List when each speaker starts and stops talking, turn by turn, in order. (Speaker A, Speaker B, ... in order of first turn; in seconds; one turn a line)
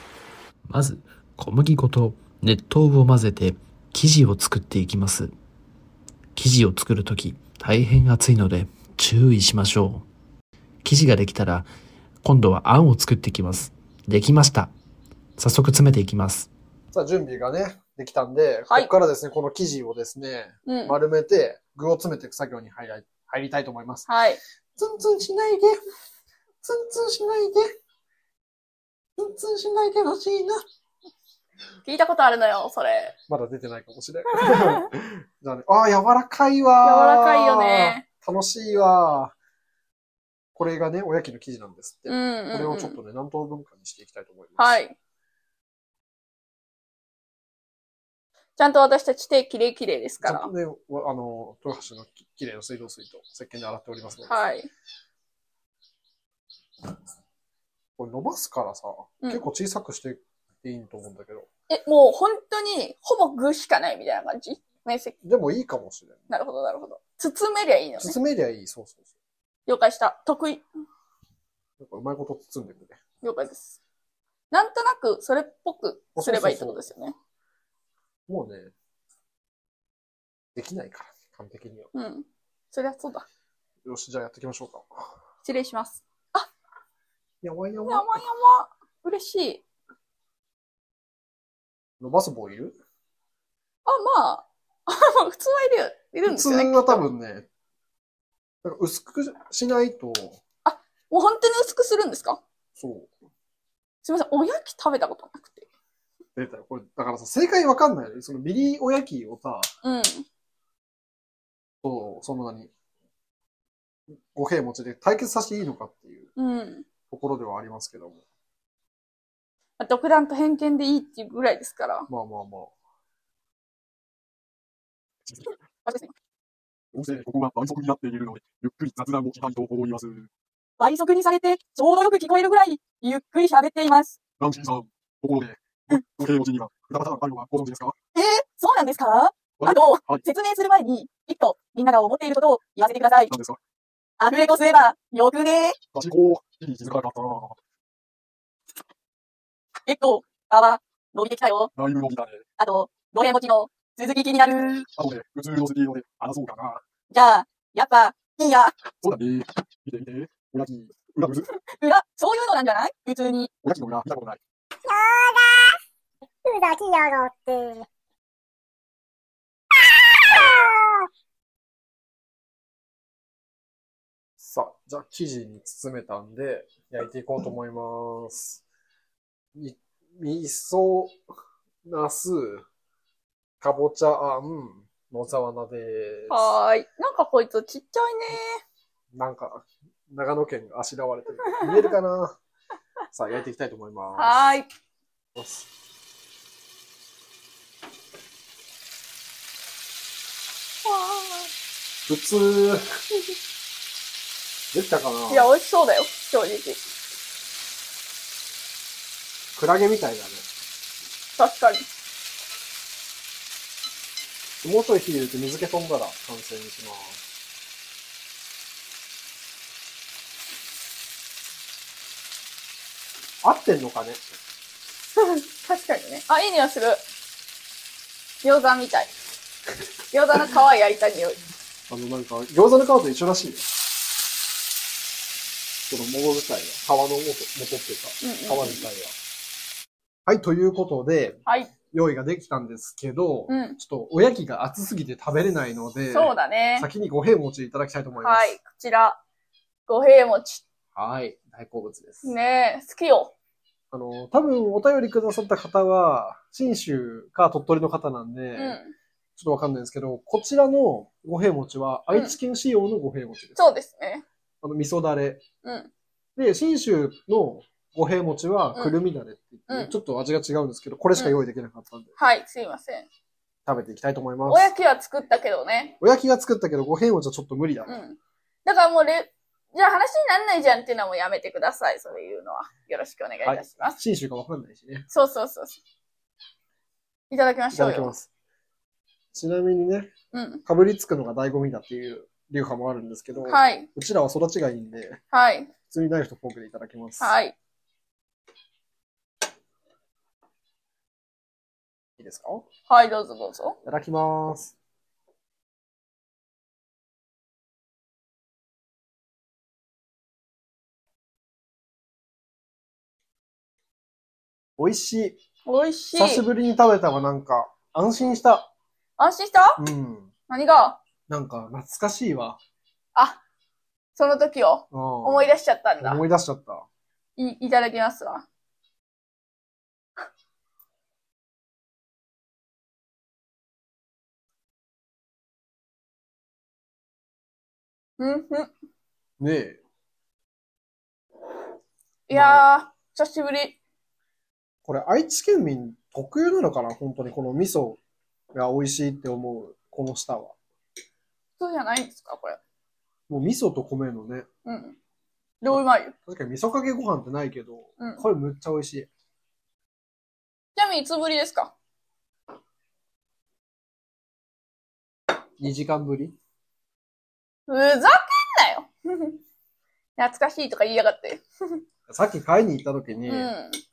Speaker A: 0.7-5.3
Speaker A: 6.3-10.1
Speaker A: 10.8-11.7
Speaker A: 12.2-14.7
Speaker A: 15.4-16.5
Speaker B: 16.9-24.1
Speaker C: 20.7-21.0
Speaker C: 24.1-24.4
Speaker B: 24.8-25.8
Speaker B: 26.6-27.7
Speaker B: 29.2-30.6
Speaker C: 31.9-33.2
Speaker B: 33.3-39.4
Speaker C: 34.4-34.7
Speaker C: 36.8-38.0
Speaker B: 40.6-44.8
Speaker C: 42.1-43.0
Speaker C: 44.6-45.0
Speaker C: 48.6-50.5
Speaker B: 50.2-54.4
Speaker C: 54.3-54.7
Speaker B: 58.0-61.5
Speaker C: 61.7-65.2
Speaker B: 65.2-66.2
Speaker C: 66.3-68.2
Speaker B: 68.0-69.0
Speaker C: 69.7-70.6
Speaker B: 71.8-73.0
Speaker C: 73.2-73.8
Speaker C: 74.5-77.1
Speaker B: 76.2-76.9
Speaker B: 78.3-78.7
Speaker B: 80.5-81.9
Speaker C: 81.9-83.2
Speaker B: 83.8-84.9
Speaker C: 85.4-86.5
Speaker B: 87.4-88.2
Speaker C: 87.8-89.6
Speaker B: 92.0-92.8
Speaker C: 93.9-97.0
Speaker B: 96.3-97.5
Speaker B: 98.6-100.4
Speaker C: 100.7-102.4
Speaker B: 102.8-103.1
Speaker C: 104.0-105.7
Speaker B: 106.4-109.7
Speaker C: 109.8-110.3
Speaker B: 111.8-112.7
Speaker B: 114.1-116.3
Speaker C: 116.4-116.8
Speaker B: 117.1-118.2
Speaker C: 119.8-122.1
Speaker B: 122.1-122.7
Speaker D: 125.9-126.1
Speaker E: 126.9-130.3
Speaker D: 130.8-134.2
Speaker E: 134.4-137.9
Speaker D: 138.2-143.3
Speaker E: 139.6-140.2
Speaker E: 143.3-143.6
Speaker D: 144.2-145.8
Speaker E: 145.9-147.6
Speaker D: 149.9-151.7
Speaker E: 151.8-152.4
Speaker D: 152.6-154.9
Speaker E: 154.9-156.8
Speaker D: 157.1-158.7
Speaker E: 159.0-161.5
Speaker D: 161.8-163.5
Speaker E: 163.6-164.4
Speaker F: 164.9-165.7
Speaker F: 166.4-167.9
Speaker B: 174.4-178.6
Speaker B: 179.6-181.2
Speaker B: 181.9-182.7
Speaker B: 183.6-186.6
Speaker C: 186.3-188.6
Speaker B: 189.1-192.3
Speaker B: 193.1-194.5
Speaker C: 194.2-194.7
Speaker B: 195.3-195.7
Speaker C: 200.8-201.5
Speaker B: 202.1-202.8
Speaker B: 204.7-205.5
Speaker C: 205.3-206.8
Speaker B: 209.6-210.4
Speaker C: 211.4-211.8
Speaker B: 214.6-217.2
Speaker B: 223.4-224.2
Speaker C: 225.2-227.0
Speaker C: 228.4-229.1
Speaker C: 230.1-231.4
Speaker B: 231.9-233.7
Speaker B: 235.9-239.2
Speaker C: 238.2-238.9
Speaker B: 240.3-248.6
Speaker C: 241.5-241.7
Speaker C: 243.5-243.8
Speaker C: 246.1-246.9
Speaker C: 248.2-249.2
Speaker C: 249.9-250.7
Speaker B: 250.9-252.3
Speaker C: 252.2-253.3
Speaker B: 253.9-258.8
Speaker C: 258.6-258.9
Speaker B: 259.4-263.6
Speaker C: 263.6-264.2
Speaker B: 264.6-265.4
Speaker C: 265.6-265.9
Speaker B: 266.4-272.1
Speaker C: 269.7-269.9
Speaker C: 272.2-273.1
Speaker B: 273.7-274.7
Speaker C: 274.5-276.0
Speaker B: 276.0-278.0
Speaker C: 277.9-284.0
Speaker B: 283.4-285.1
Speaker C: 285.1-285.8
Speaker C: 287.3-288.2
Speaker B: 287.7-288.3
Speaker B: 289.3-290.1
Speaker C: 290.3-290.6
Speaker B: 290.7-295.2
Speaker C: 293.5-293.9
Speaker C: 295.3-295.7
Speaker B: 295.9-297.4
Speaker C: 297.2-297.6
Speaker B: 302.2-302.7
Speaker C: 302.9-303.8
Speaker B: 303.9-304.8
Speaker B: 314.8-315.4
Speaker C: 315.7-316.4
Speaker B: 316.1-318.7
Speaker C: 319.2-319.8
Speaker B: 319.8-320.3
Speaker C: 320.5-321.0
Speaker B: 321.3-322.6
Speaker C: 323.1-323.4
Speaker C: 324.2-326.2
Speaker B: 324.9-326.9
Speaker C: 327.4-328.4
Speaker C: 338.2-338.7
Speaker B: 339.4-339.8
Speaker C: 342.3-343.8
Speaker B: 342.3-342.8
Speaker B: 344.9-348.0
Speaker B: 348.5-350.6
Speaker C: 351.6-352.6
Speaker B: 353.3-354.5
Speaker C: 354.6-355.0
Speaker C: 355.6-356.1
Speaker B: 355.7-359.1
Speaker C: 360.8-361.7
Speaker B: 365.6-366.4
Speaker C: 367.7-369.4
Speaker C: 370.2-371.8
Speaker B: 372.1-373.5
Speaker C: 373.3-373.8